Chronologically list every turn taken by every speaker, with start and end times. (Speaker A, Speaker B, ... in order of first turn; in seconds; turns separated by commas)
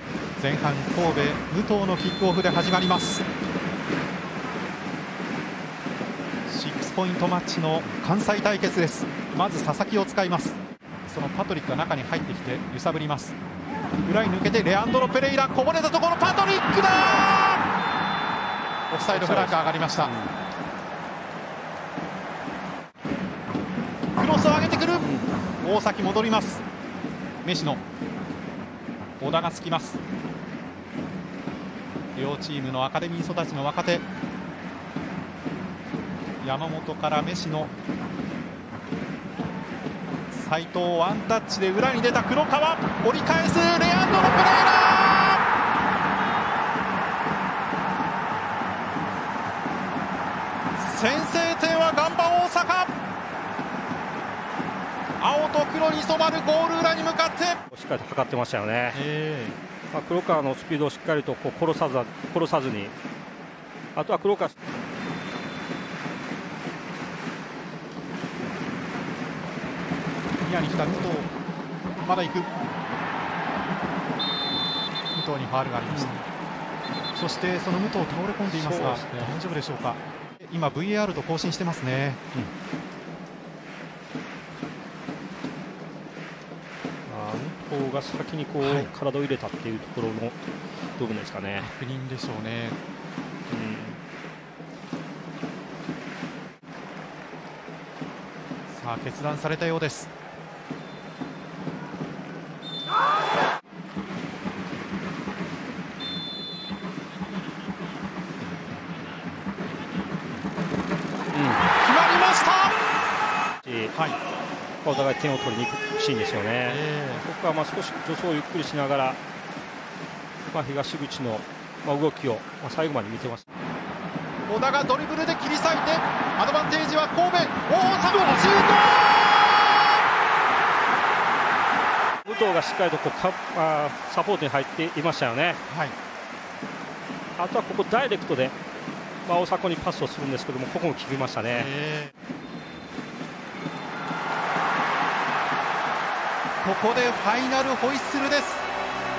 Speaker A: 0.4-3.2, Speaker A: 6.5-13.4, Speaker A: 14.1-17.6, Speaker A: 18.9-20.2, Speaker B: 19.1-20.3, Speaker A: 24.2-25.1, Speaker B: 25.0-25.3, Speaker A: 25.6-26.6, Speaker A: 27.4-27.8, Speaker A: 29.2-30.0, Speaker A: 32.1-34.0, Speaker A: 36.4-37.7, Speaker A: 40.3-45.5, Speaker A: 50.8-52.9, Speaker A: 55.2-57.6, Speaker B: 57.7-59.0, Speaker A: 58.9-59.6, Speaker B: 59.9-62.9, Speaker B: 64.0-64.5, Speaker A: 70.5-71.3, Speaker A: 72.0-72.5, Speaker A: 75.1-76.2, Speaker B: 75.9-76.2, Speaker A: 77.2-82.2, Speaker B: 78.5-79.4, Speaker B: 87.1-90.4, Speaker A: 88.6-88.9, Speaker B: 91.0-91.7, Speaker A: 91.6-92.8, Speaker B: 93.5-94.0, Speaker A: 98.7-100.1, Speaker B: 111.3-111.7, Speaker A: 111.8-112.8, Speaker B: 113.6-113.9, Speaker A: 113.9-114.2, Speaker B: 114.8-119.2, Speaker A: 116.7-117.2, Speaker B: 120.5-123.5, Speaker A: 124.5-130.0, Speaker B: 132.2-135.6, Speaker A: 135.7-136.0, Speaker B: 137.4-138.6, Speaker B: 139.2-141.7, Speaker A: 141.5-142.1, Speaker A: 146.6-148.7